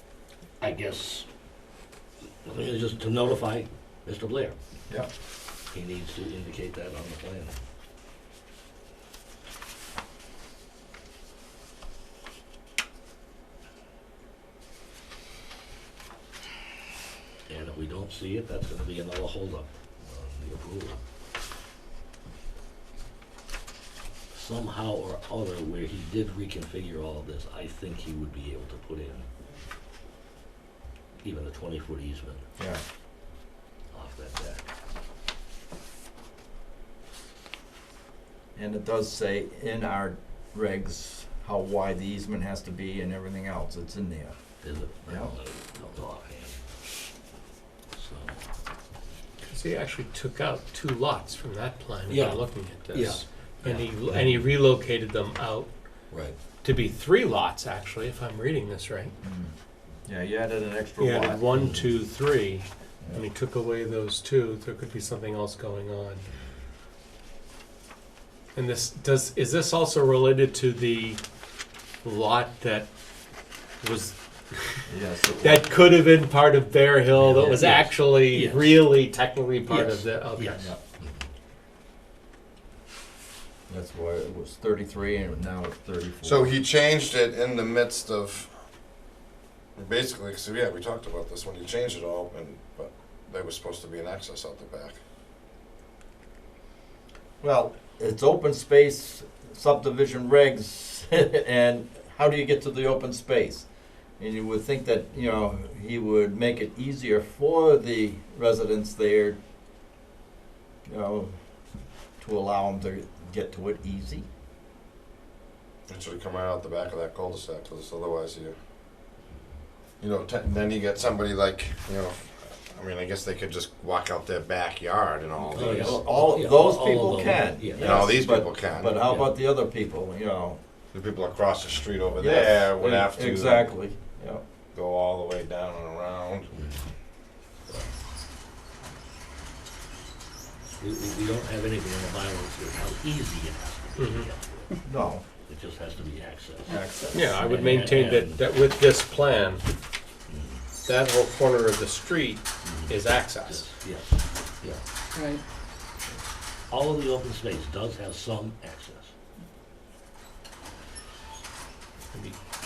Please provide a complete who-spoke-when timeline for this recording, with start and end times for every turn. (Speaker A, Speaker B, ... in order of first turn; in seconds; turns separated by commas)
Speaker A: 0.6-1.3, Speaker A: 2.4-4.5, Speaker A: 5.7-7.5, Speaker A: 17.5-21.0, Speaker A: 24.3-29.2, Speaker A: 31.2-32.4, Speaker A: 33.9-34.6, Speaker B: 38.5-44.4, Speaker A: 44.6-46.6, Speaker B: 45.0-45.4, Speaker A: 47.9-48.4, Speaker C: 49.5-55.7, Speaker A: 52.1-54.3, Speaker C: 56.6-59.1, Speaker B: 59.2-59.5, Speaker B: 60.0-61.6, Speaker C: 61.0-66.2, Speaker C: 68.5-71.2, Speaker C: 72.0-72.9, Speaker C: 73.8-74.8, Speaker B: 74.9-75.7, Speaker C: 75.4-80.7, Speaker A: 77.1-78.8, Speaker A: 79.7-80.6, Speaker B: 83.7-86.5, Speaker D: 86.2-88.5, Speaker D: 89.8-95.0, Speaker B: 97.4-109.4, Speaker B: 110.8-111.3, Speaker B: 112.2-114.2, Speaker D: 115.9-118.5, Speaker D: 120.0-126.0, Speaker A: 125.5-128.0, Speaker B: 125.5-130.6, Speaker D: 127.8-129.0, Speaker D: 130.9-133.7, Speaker B: 132.2-134.4, Speaker D: 134.7-136.5, Speaker A: 136.5-136.8, Speaker A: 140.8-144.8, Speaker C: 144.0-144.3, Speaker B: 144.8-145.2, Speaker A: 145.4-146.7, Speaker B: 146.7-147.4, Speaker C: 147.1-149.6, Speaker A: 147.4-148.4, Speaker A: 150.3-150.6, Speaker C: 150.8-153.7, Speaker A: 152.6-154.8, Speaker A: 156.7-159.1, Speaker C: 162.1-162.4